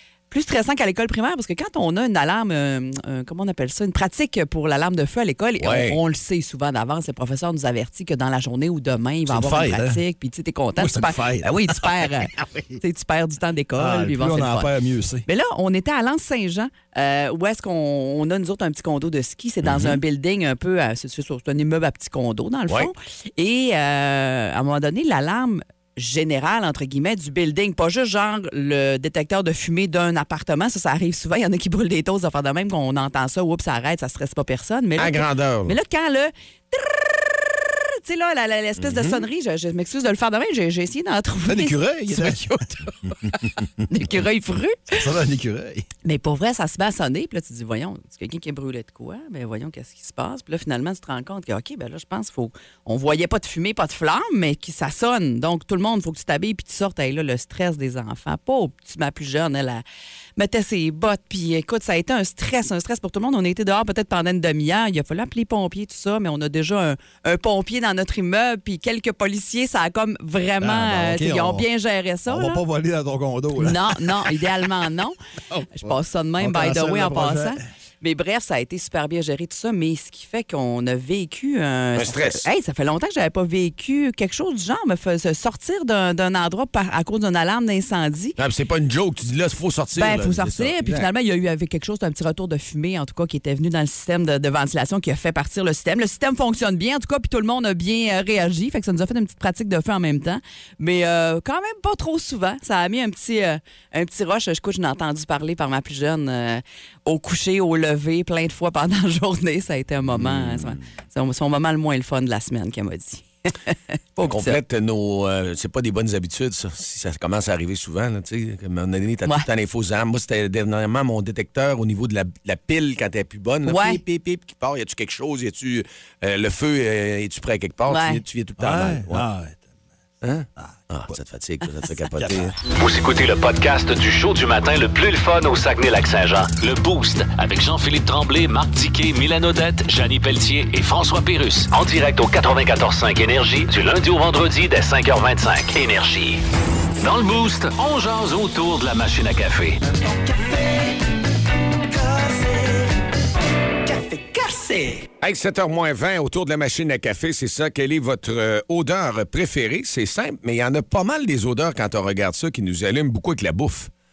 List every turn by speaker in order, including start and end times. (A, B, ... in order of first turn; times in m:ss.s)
0:00.3-0:14.7 A
0:05.6-0:06.0 B
0:09.3-0:10.0 C
0:10.8-0:12.8 C
0:13.8-0:15.2 C
0:15.2-0:42.6 A
0:19.6-0:20.0 B
0:35.0-0:35.8 B
0:38.8-0:39.2 B
0:41.5-0:42.8 C
0:43.9-0:45.0 A
0:44.9-0:45.9 C
0:46.0-0:59.8 A
1:00.4-1:12.6 A
1:10.6-1:11.7 C
1:12.3-1:14.3 C
1:13.6-1:15.2 A
1:15.5-1:17.6 C
1:15.7-1:28.4 A
1:22.0-1:22.4 B
1:28.4-1:31.1 B
1:30.0-1:54.6 A
1:50.1-1:50.8 B
1:54.2-2:09.2 B
2:03.6-2:04.0 A
2:07.9-2:08.2 A
2:08.6-2:09.7 C
2:10.2-2:12.6 B
2:12.2-2:12.5 C
2:12.6-2:26.4 D
2:27.0-2:29.8 D
2:35.2-2:43.9 B